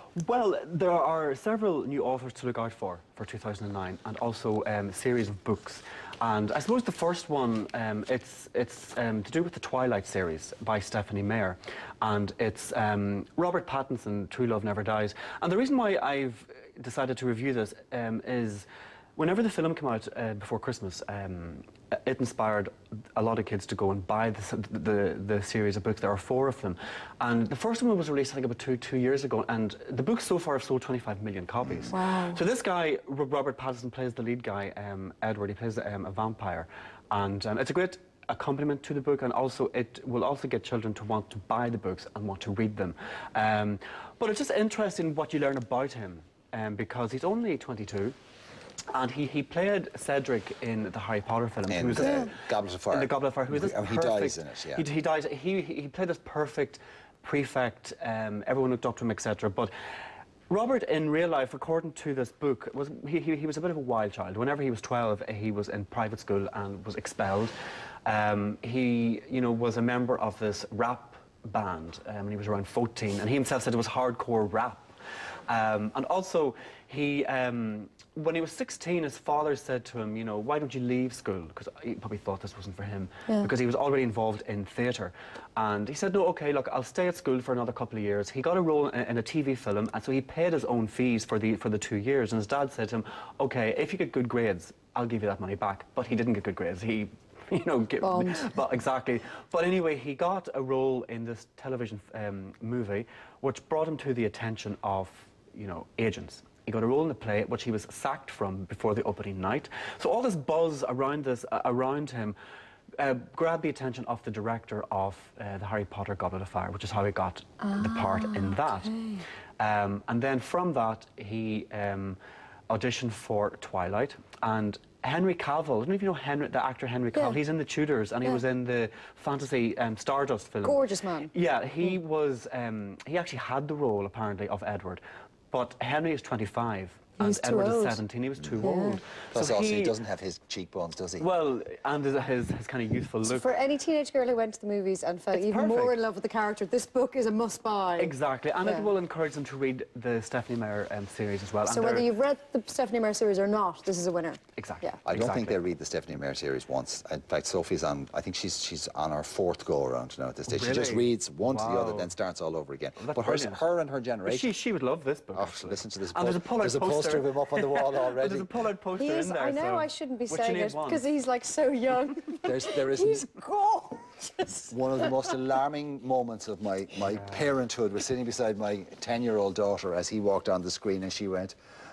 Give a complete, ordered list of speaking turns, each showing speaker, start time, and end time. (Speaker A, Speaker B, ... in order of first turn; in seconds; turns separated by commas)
Speaker A: 0.1-48.1, Speaker B: 31.9-32.4, Speaker A: 48.9-59.7, Speaker C: 51.7-54.8, Speaker B: 52.0-52.3, Speaker A: 60.5-67.5, Speaker A: 68.0-74.9, Speaker A: 75.5-112.3, Speaker B: 98.0-98.5, Speaker A: 113.0-118.9, Speaker B: 117.6-119.2, Speaker A: 119.6-122.2, Speaker A: 122.7-140.0, Speaker B: 127.1-127.4, Speaker B: 130.6-131.3, Speaker B: 137.2-138.0, Speaker B: 138.6-139.0, Speaker C: 139.3-141.3, Speaker A: 141.2-143.6, Speaker B: 143.2-148.9, Speaker A: 145.3-146.0, Speaker A: 148.0-152.1, Speaker B: 151.7-155.0, Speaker A: 154.6-155.6, Speaker C: 155.1-164.5, Speaker A: 160.5-162.1, Speaker A: 163.0-163.6, Speaker A: 164.2-171.0, Speaker C: 165.3-168.5, Speaker B: 169.0-175.3, Speaker C: 172.4-173.3, Speaker C: 174.7-181.5, Speaker A: 177.1-177.5